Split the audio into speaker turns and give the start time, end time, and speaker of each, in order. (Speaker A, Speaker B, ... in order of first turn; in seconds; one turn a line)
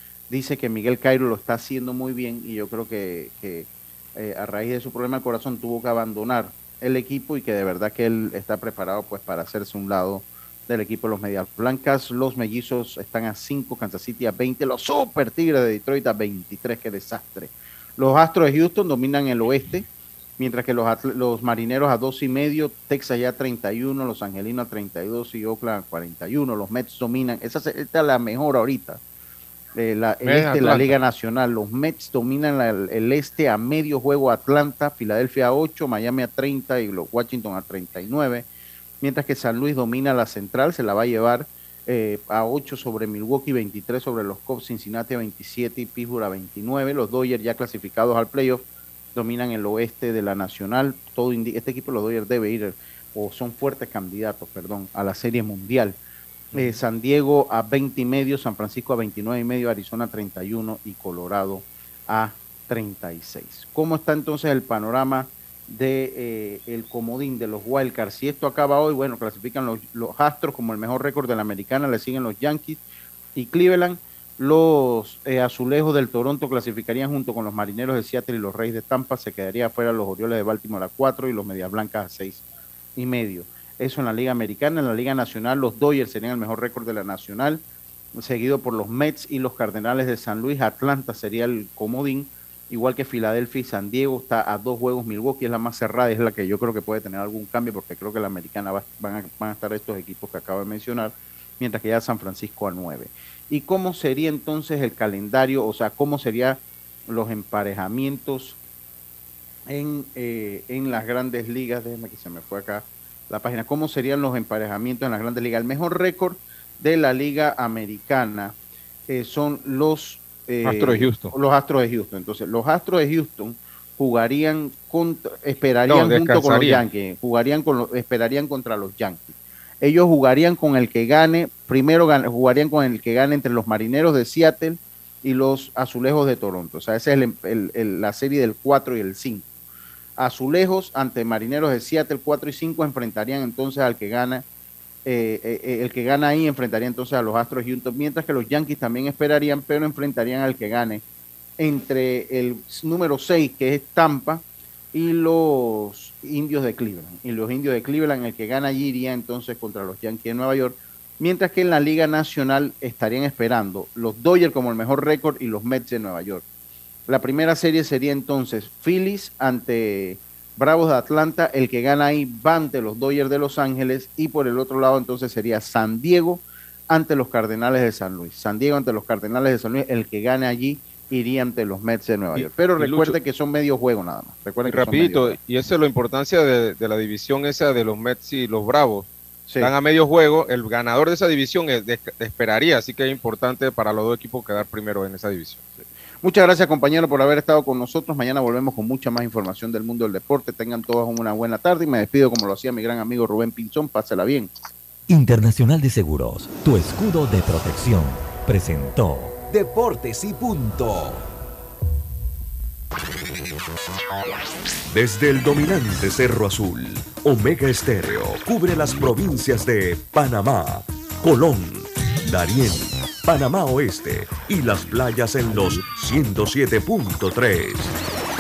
Speaker A: 0.3-29.0
Speaker A: 29.7-38.5
Speaker B: 30.2-30.9
Speaker A: 39.0-56.0
Speaker A: 56.5-72.8
Speaker A: 73.3-82.4
Speaker A: 83.0-87.6
Speaker A: 88.2-108.6
Speaker A: 109.7-118.5
Speaker A: 119.1-139.5
Speaker B: 120.6-121.3
Speaker B: 125.9-126.8
Speaker A: 140.2-144.4
Speaker A: 145.0-151.0
Speaker A: 151.6-166.4
Speaker A: 167.1-185.4
Speaker B: 182.3-183.2
Speaker B: 184.7-189.1
Speaker B: 189.6-195.6
Speaker A: 196.2-204.5
Speaker C: 205.1-209.4
Speaker D: 209.5-211.2
Speaker D: 214.9-227.9